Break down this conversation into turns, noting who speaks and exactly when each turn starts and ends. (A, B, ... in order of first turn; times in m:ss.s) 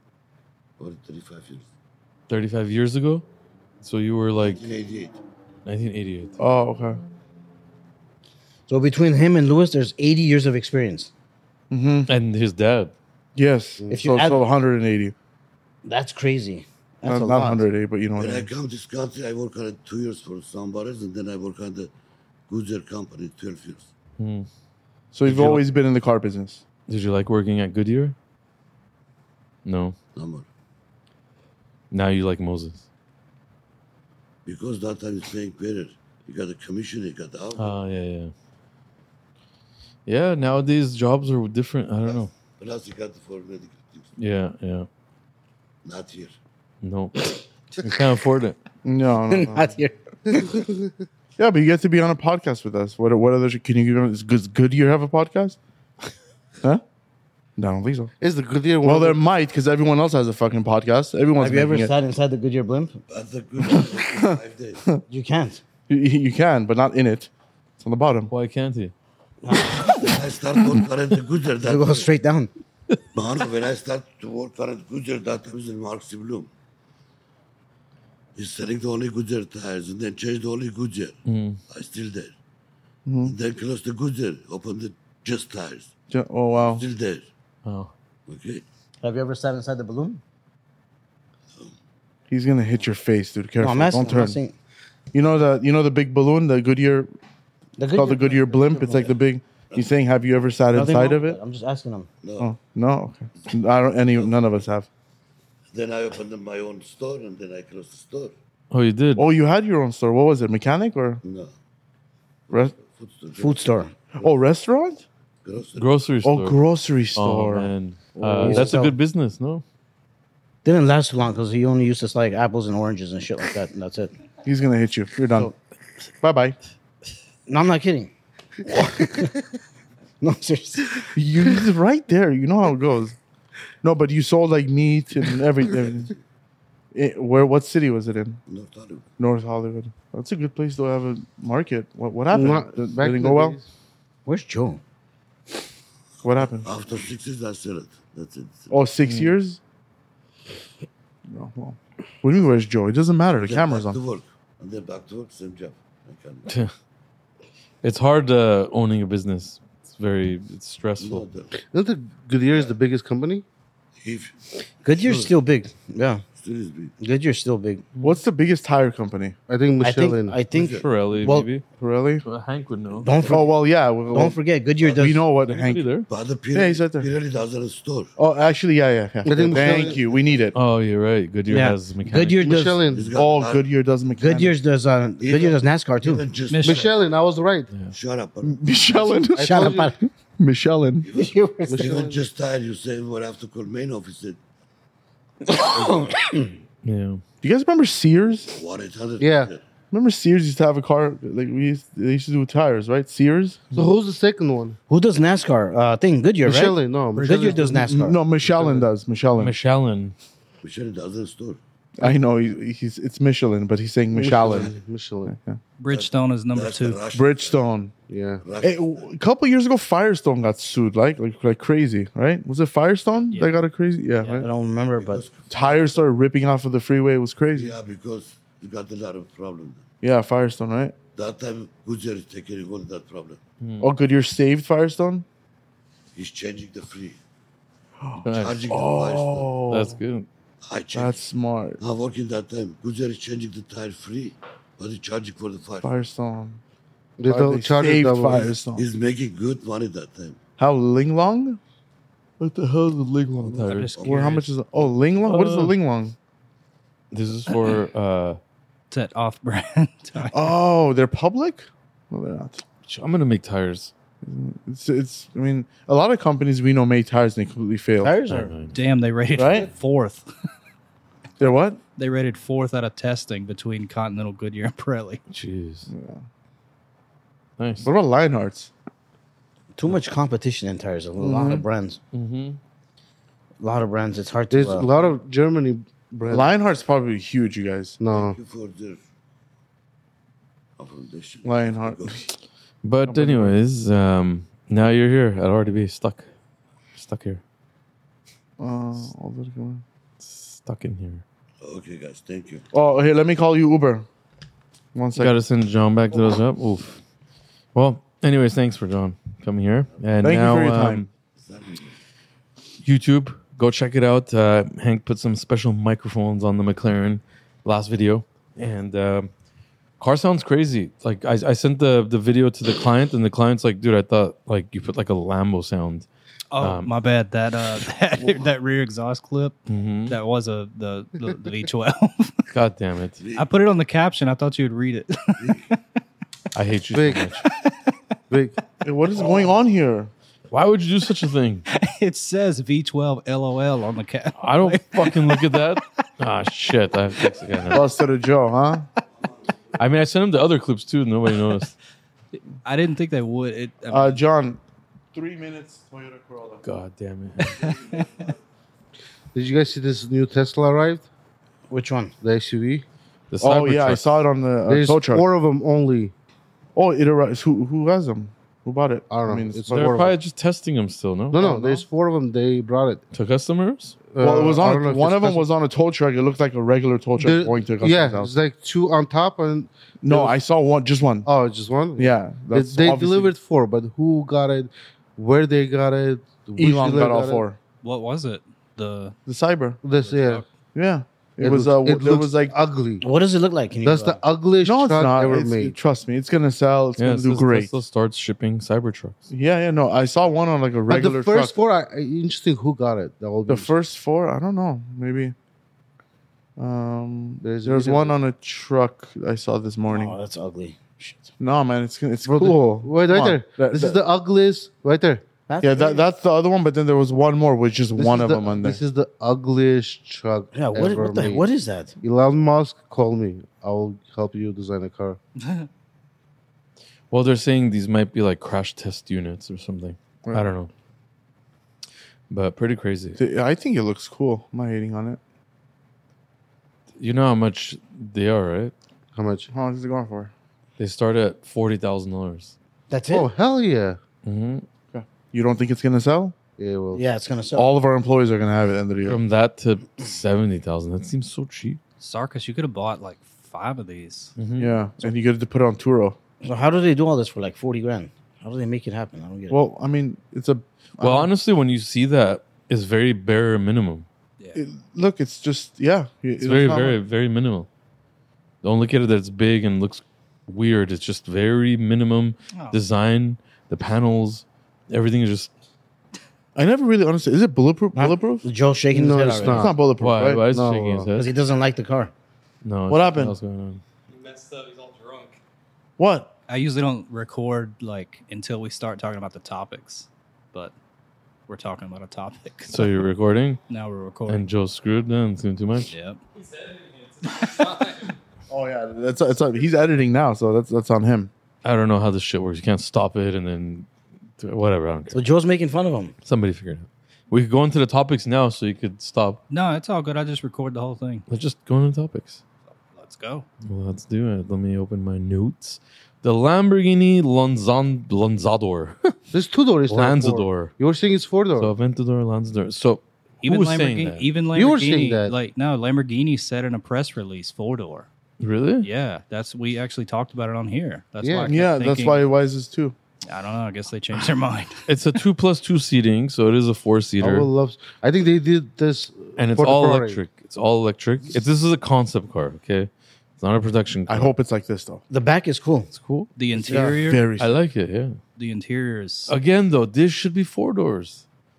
0:00.8-0:01.7 A
0:02.3-0:03.3 B
0:03.8-0:04.6 B
0:04.4-0:05.2 A
0:05.7-0:06.4 B
0:06.4-0:07.0 C
0:08.7-0:11.1 D
0:11.7-0:12.1 C
0:12.1-0:12.9 B
0:13.4-0:15.2 C
0:13.8-0:14.1 E
0:13.9-0:14.4 D
0:15.8-0:17.6 D
0:17.1-0:18.5 C
0:18.2-0:21.9 A
0:22.5-0:23.9 A
0:24.2-0:24.5 B
0:25.1-0:26.6 C
0:25.2-0:25.6 B
0:26.9-0:28.2 B
0:29.6-0:30.0 B
0:30.2-0:30.5 A
0:31.9-0:32.9 B
0:34.5-0:37.8 A
0:37.6-0:38.3 B
0:40.1-0:42.3 B
0:42.1-0:44.1 A
0:44.2-0:44.9 B
0:45.8-0:46.4 A
0:46.8-0:48.6 B
0:48.8-0:49.7 C
0:49.3-0:50.6 D
0:50.3-0:50.9 E
0:51.4-0:55.6 C
0:57.6-0:58.1 C
0:58.2-0:59.2 E
0:58.8-1:01.9 C
1:01.4-1:03.0 D
1:03.1-1:04.8 A
1:03.7-1:05.0 C
1:05.1-1:05.6 D
1:05.9-1:08.3 C
1:08.3-1:08.9 B
1:09.4-1:10.8 D
1:09.7-1:12.1 A
1:11.6-1:12.5 D
1:13.2-1:16.5 A
1:18.4-1:21.2 A
1:21.3-1:21.6 B
1:21.7-1:22.3 A
1:23.1-1:23.4 C
1:23.2-1:25.9 A
1:26.1-1:26.8 C
1:26.6-1:27.3 A
1:27.6-1:27.9 B
1:28.3-1:28.6 A
1:29.0-1:30.2 D
1:32.3-1:34.4 C
1:33.6-1:34.6 D
1:35.1-1:37.1 C
1:37.8-1:39.1 D
1:37.9-1:41.4 C
1:40.7-1:42.1 D
1:42.2-1:42.5 A
1:42.4-1:44.9 C
1:45.7-1:48.3 A
1:48.7-1:49.3 B
1:49.2-1:51.2 C
1:51.2-1:51.5 A
1:52.5-1:53.7 A
1:53.4-1:54.0 D
1:54.2-1:55.0 C
1:55.4-1:55.9 A
1:55.8-1:56.6 B
1:56.2-1:58.9 C
1:57.2-1:59.6 B
1:58.4-1:59.0 D
2:00.6-2:04.1 D
2:04.4-2:05.5 C
2:06.2-2:06.6 C
2:07.5-2:08.1 D
2:08.6-2:09.4 D
2:10.2-2:11.1 D
2:11.1-2:13.2 C
2:13.8-2:16.1 C
2:16.9-2:18.4 C
2:18.5-2:19.1 A
2:19.2-2:23.6 C
2:22.3-2:23.7 E
2:24.3-2:24.8 D
2:26.2-2:26.7 C
2:26.5-2:28.8 A
2:28.7-2:29.6 C
2:29.0-2:29.3 B
2:31.3-2:34.0 C
2:33.4-2:36.5 A
2:36.5-2:36.7 B
2:37.8-2:41.3 B
2:41.0-2:41.5 A
2:41.6-2:43.4 E
2:44.0-2:44.4 A
2:44.8-2:46.2 D
2:44.9-2:45.3 A
2:46.4-2:46.9 A
2:47.0-2:47.9 D
2:48.0-2:49.4 C
2:49.5-2:50.4 E
2:49.8-2:51.5 D
2:50.5-2:50.9 A
2:50.7-2:51.6 B
2:51.8-2:52.2 C
2:52.2-2:53.2 B
2:53.0-2:53.5 D
2:53.3-2:55.9 C
2:54.1-2:55.3 D
2:55.5-2:56.1 B
2:56.1-2:58.1 A
2:56.5-2:57.1 C
2:58.2-3:00.6 C
2:59.2-3:00.1 E
3:00.5-3:02.5 B
3:01.5-3:02.9 D
3:02.4-3:03.1 E
3:02.9-3:03.7 A
3:03.1-3:04.6 C
3:04.2-3:06.3 D
3:05.2-3:07.0 A
3:06.5-3:06.9 F
3:06.6-3:07.7 E
3:07.9-3:09.2 A
3:08.4-3:11.1 C
3:09.3-3:09.9 E
3:09.4-3:10.0 D
3:11.0-3:14.4 A
3:11.1-3:12.0 D
3:11.7-3:12.2 E
3:15.4-3:16.6 D
3:16.8-3:17.2 B
3:17.4-3:18.6 C
3:18.5-3:19.6 A
3:19.2-3:19.5 E
3:19.9-3:23.7 C
3:23.7-3:24.8 E
3:24.9-3:28.2 D
3:26.4-3:27.8 E
3:27.2-3:27.6 F
3:27.5-3:29.6 C
3:28.4-3:28.9 E
3:29.4-3:30.2 B
3:30.6-3:31.6 A
3:32.0-3:34.7 C
3:34.1-3:35.4 E
3:35.3-3:35.6 C
3:35.8-3:37.0 F
3:35.9-3:37.6 A
3:37.1-3:37.9 C
3:38.1-3:38.4 E
3:38.4-3:39.0 A
3:38.6-3:44.5 C
3:44.3-3:45.2 D
3:45.0-3:45.8 A
3:45.5-3:47.8 C
3:47.5-3:49.8 A
3:50.0-3:51.0 C
3:51.2-3:53.4 A
3:53.6-3:53.9 B
3:53.8-3:55.3 C
3:56.2-3:57.2 A
3:58.0-4:00.0 C
3:58.2-3:58.7 B
3:58.4-3:59.5 A
3:59.7-4:00.3 B
4:00.7-4:01.2 A
4:00.9-4:01.8 C
4:01.8-4:05.9 A
4:05.8-4:06.6 C
4:07.2-4:08.5 E
4:07.3-4:08.9 C
4:08.7-4:10.4 A
4:10.6-4:11.6 C
4:12.4-4:13.9 B
4:13.4-4:14.4 A
4:13.6-4:14.5 F
4:14.0-4:16.2 C
4:15.2-4:15.8 B
4:17.1-4:18.4 B
4:18.9-4:20.5 F
4:20.3-4:22.6 C
4:22.9-4:23.9 B
4:24.2-4:28.2 C
4:28.0-4:28.5 D
4:28.3-4:28.8 B
4:28.7-4:30.3 F
4:29.4-4:29.7 C
4:31.4-4:31.8 C
4:32.0-4:35.2 F
4:35.3-4:35.9 B
4:35.9-4:36.2 C
4:37.6-4:37.9 B
4:37.8-4:38.7 C
4:39.8-4:42.0 D
4:41.2-4:41.7 C
4:42.1-4:42.6 B
4:43.6-4:44.9 D
4:44.5-4:46.5 E
4:46.3-4:48.0 C
4:48.0-4:48.4 E
4:48.1-4:49.0 A
4:50.8-4:52.2 A
4:51.4-4:52.3 C
4:52.8-4:56.3 B
4:53.1-4:53.6 C
4:57.0-4:57.4 B
4:58.6-4:59.8 C
5:00.2-5:01.2 B
5:01.6-5:02.6 A
5:02.7-5:04.1 C
5:05.0-5:05.4 C
5:05.2-5:07.0 B
5:07.7-5:11.1 B
5:10.2-5:11.1 C
5:11.4-5:11.9 A
5:12.8-5:19.3 B
5:20.0-5:26.1 B
5:26.5-5:32.5 F
5:26.6-5:26.9 B
5:29.7-5:30.2 B
5:32.5-5:33.2 B
5:33.2-5:33.5 A
5:33.4-5:35.8 F
5:35.4-5:35.7 A
5:36.5-5:37.5 B
5:36.9-5:37.2 E
5:38.3-5:38.6 E
5:38.8-5:40.1 C
5:40.5-5:41.7 B
5:41.7-5:45.8 F
5:44.4-5:47.8 B
5:47.7-5:48.9 C
5:49.8-5:51.7 B
5:52.6-5:54.2 F
5:53.9-5:54.6 C
5:55.1-5:56.6 C
5:56.6-5:57.7 B
5:57.4-5:58.1 F
5:59.3-6:01.1 E
6:01.7-6:02.1 D
6:02.2-6:02.8 E
6:03.3-6:04.2 B
6:03.4-6:05.2 C
6:04.7-6:06.1 E
6:06.8-6:10.1 C
6:09.1-6:10.2 E
6:09.7-6:11.4 B
6:11.3-6:13.0 E
6:13.1-6:14.0 B
6:14.1-6:15.5 E
6:14.2-6:18.3 C
6:17.2-6:20.4 E
6:20.0-6:21.3 C
6:21.2-6:27.5 E
6:22.0-6:23.4 C
6:26.6-6:27.6 C
6:27.8-6:29.2 F
6:29.3-6:29.8 C
6:29.8-6:30.4 E
6:30.0-6:30.5 F
6:30.8-6:32.6 C
6:31.4-6:33.0 E
6:33.0-6:34.2 D
6:33.8-6:35.8 E
6:34.6-6:37.8 C
6:37.0-6:39.3 B
6:39.3-6:41.6 C
6:40.9-6:43.7 E
6:43.5-6:45.4 C
6:46.6-6:50.2 C
6:47.4-6:48.2 E
6:49.9-6:51.3 D
6:51.4-6:54.0 C
6:52.3-6:55.2 E
6:55.5-6:56.0 D
6:55.6-6:58.8 C
6:58.0-7:01.5 E
7:00.5-7:02.0 D
7:02.0-7:05.2 E
7:05.4-7:05.7 F
7:07.1-7:10.7 B
7:12.3-7:13.2 B
7:13.2-7:15.2 C
7:17.0-7:18.7 B
7:19.2-7:19.5 E
7:19.5-7:20.3 C
7:20.8-7:22.6 B
7:22.9-7:23.3 D
7:23.1-7:24.0 E
7:24.2-7:24.7 B
7:24.9-7:26.4 C
7:26.6-7:27.0 E
7:26.9-7:27.7 D
7:27.5-7:29.2 C
7:29.1-7:31.8 B
7:32.0-7:34.4 F
7:34.4-7:34.8 B
7:34.6-7:36.2 C
7:36.4-7:39.6 D
7:39.5-7:41.3 C
7:41.0-7:44.1 B
7:44.5-7:47.0 C
7:46.4-7:47.7 B
7:48.6-7:55.5 B
7:52.5-7:52.8 F
7:56.6-7:58.5 C
7:58.0-7:59.7 D
7:58.9-7:59.7 E
7:59.4-8:00.5 C
8:00.0-8:01.3 B
8:00.5-8:01.1 E
8:01.2-8:02.1 D
8:02.6-8:03.8 B
8:02.9-8:03.4 C
8:06.0-8:06.3 C
8:06.5-8:10.7 F
8:11.5-8:12.9 F
8:12.7-8:13.6 B
8:13.7-8:14.5 F
8:14.3-8:15.9 B
8:15.9-8:16.2 F
8:17.4-8:18.0 F
8:18.5-8:21.3 C
8:21.6-8:23.9 B
8:24.4-8:25.2 B
8:25.1-8:26.2 D
8:26.2-8:29.4 B
8:29.5-8:31.3 F
8:31.3-8:32.4 B
8:32.9-8:33.5 F
8:33.6-8:39.1 B
8:39.3-8:41.7 E
8:39.9-8:40.7 B
8:41.6-8:44.3 B
8:43.4-8:48.1 F
8:44.5-8:45.3 E
8:48.4-8:48.9 B
8:48.8-8:52.2 F
8:51.2-8:51.5 E
8:51.4-8:53.0 C
8:53.3-8:54.9 F
8:54.9-8:57.5 B
8:57.2-9:00.2 E
8:59.4-9:04.3 B
9:04.1-9:05.0 C
9:05.1-9:05.9 D
9:05.9-9:06.3 B
9:06.4-9:07.2 F
9:06.6-9:07.0 D
9:06.7-9:07.6 C
9:07.4-9:08.2 B
9:08.4-9:09.4 F
9:09.3-9:11.2 B